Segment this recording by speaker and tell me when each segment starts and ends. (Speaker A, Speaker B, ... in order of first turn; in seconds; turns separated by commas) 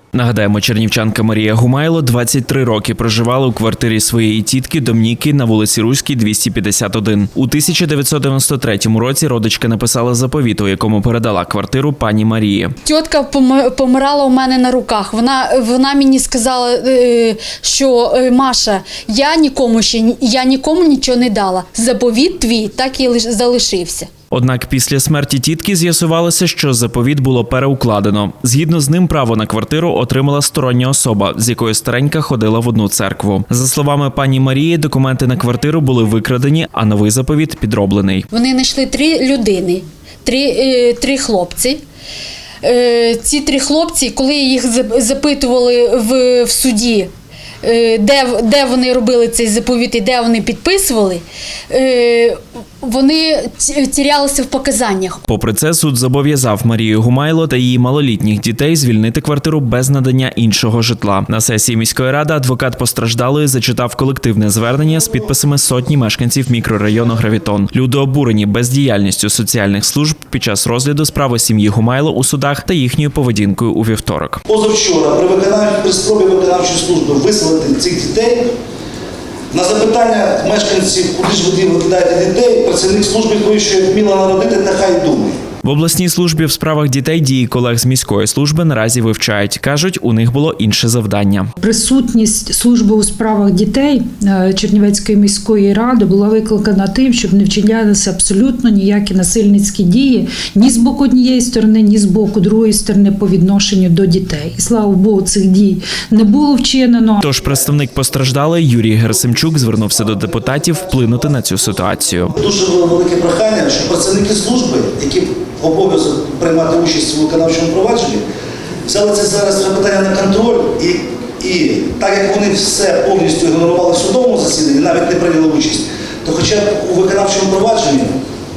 Speaker A: 0.1-12.8, Speaker B: 12.8-24.1, Speaker A: 24.3-38.3, Speaker B: 38.3-41.8, Speaker B: 42.6-47.1, Speaker B: 47.6-55.2, Speaker A: 55.3-74.4, Speaker C: 74.5-78.5, Speaker C: 79.5-85.4, Speaker A: 85.6-91.5, Speaker D: 91.6-107.2, Speaker A: 107.2-112.4, Speaker C: 109.1-111.6, Speaker C: 112.4-118.2, Speaker C: 118.9-128.2